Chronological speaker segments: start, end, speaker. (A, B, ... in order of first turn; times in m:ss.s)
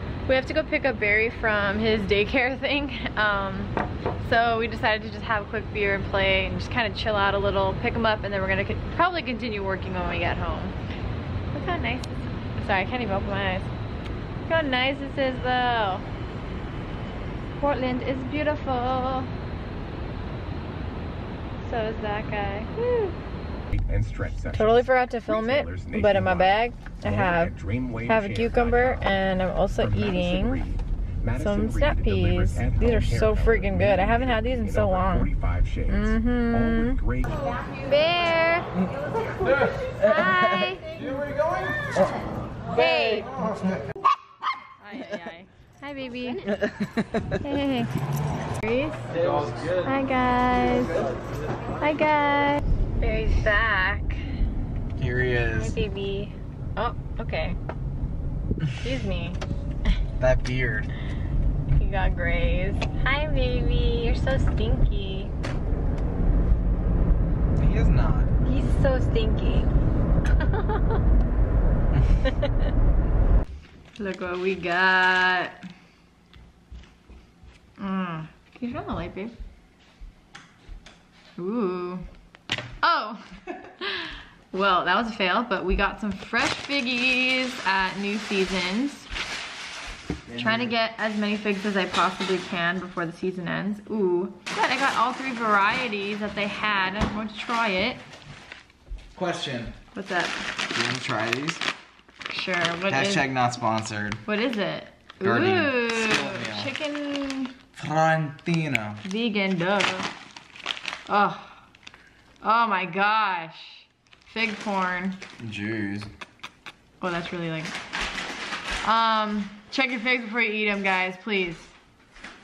0:00.3-0:10.8 A
0:11.5-0:13.7 A
0:14.5-0:16.0 A
0:17.6-0:19.3 A
0:21.6-0:23.1 A
0:23.7-0:29.1 B
0:24.5-0:27.5 A
0:28.0-0:30.6 A
0:29.8-0:37.4 B
0:31.4-0:35.3 A
0:35.9-0:38.7 A
0:39.3-0:41.1 A
0:39.4-0:42.1 C
0:42.7-0:43.4 A
0:42.8-0:43.8 C
0:44.8-0:46.5 A
0:46.4-0:47.4 C
0:47.4-0:47.9 A
0:48.6-0:49.1 A
0:49.1-0:49.9 C
0:49.8-0:51.1 A
0:50.7-0:51.2 C
0:51.8-0:54.2 A
0:55.0-0:55.8 C
0:55.5-0:57.6 A
0:58.8-0:59.4 A
1:00.2-1:00.9 C
1:01.8-1:05.3 A
1:07.6-1:08.3 C
1:08.4-1:09.7 A
1:10.3-1:11.0 A
1:14.0-1:15.6 A
1:17.8-1:19.3 A
1:21.4-1:22.1 A
1:22.8-1:29.1 A
1:30.3-1:30.8 C
1:30.4-1:38.0 A
1:39.1-1:39.8 C
1:39.9-1:40.4 A
1:40.7-1:41.6 C
1:42.3-1:43.3 A
1:42.9-1:44.2 C
1:44.2-1:47.6 A
1:45.2-1:46.7 C
1:47.7-1:49.0 C
1:49.0-1:50.1 A
1:51.1-1:51.6 A
1:52.4-1:55.2 A
1:55.4-1:56.1 C
1:57.0-1:57.7 A
1:58.8-2:01.7 A